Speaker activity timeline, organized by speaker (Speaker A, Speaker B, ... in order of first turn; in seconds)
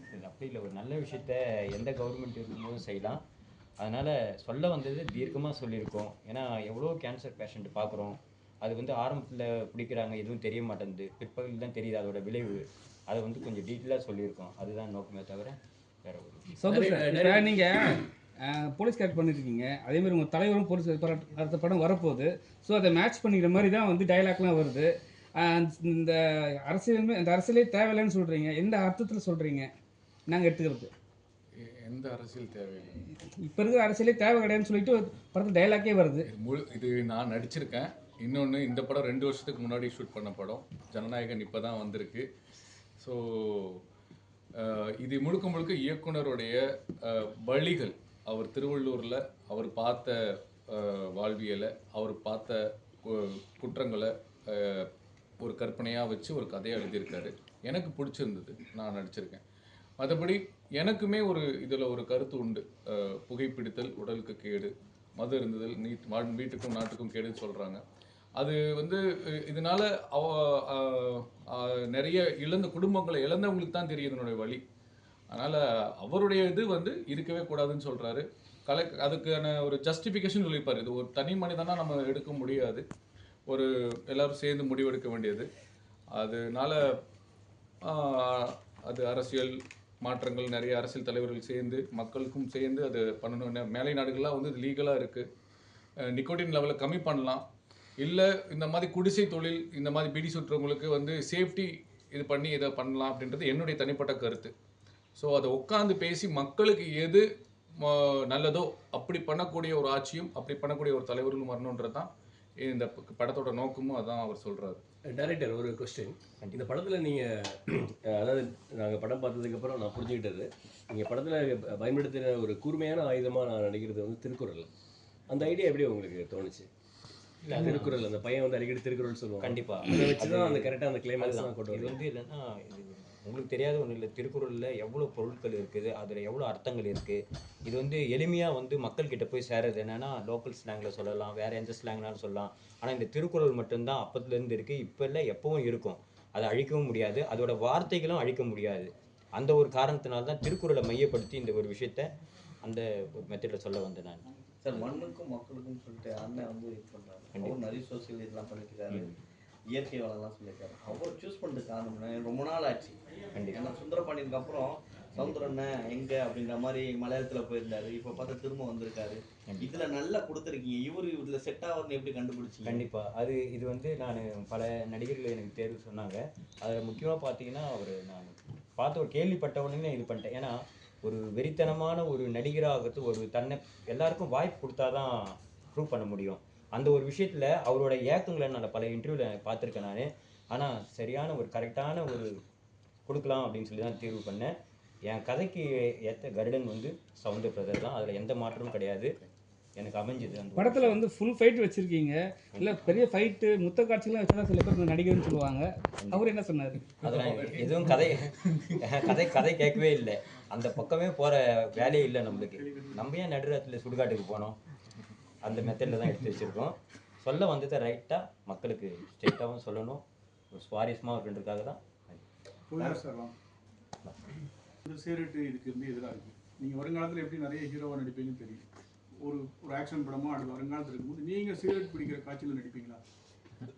Speaker A: 0.1-3.2, 3.8-16.6, 116.4-116.7, 127.4-128.1, 129.4-152.1, 152.6-154.9, 157.3-157.7, 163.3-163.7, 169.5-169.9, 172.7-192.4, 193.1-194.5, 195.1-199.2, 199.8-201.0, 202.6-203.0, 206.0-206.3, 207.0-214.6, 215.4-222.2
Speaker B: 16.6-24.9, 25.4-26.2, 26.7-29.7, 30.3-30.9, 33.4-36.3, 200.6-206.9
Speaker C: 16.7-17.6, 115.0-124.7, 125.3-126.7, 127.5-132.0
Speaker D: 31.6-33.0, 36.3-42.3, 43.0-43.8, 44.6-50.2, 50.7-54.9, 55.4-59.4, 60.0-67.8, 68.4-74.6, 75.3-82.8, 83.5-85.5, 86.2-86.8, 87.8-95.2, 96.1-97.4, 98.0-104.5, 105.2-107.2, 107.8-112.1, 112.7-114.8, 207.0-208.8
Speaker E: 154.6-159.1, 159.7-163.0, 163.5-172.8
Speaker F: 211.8-213.1, 222.7-223.3, 224.8-228.6, 229.2-233.0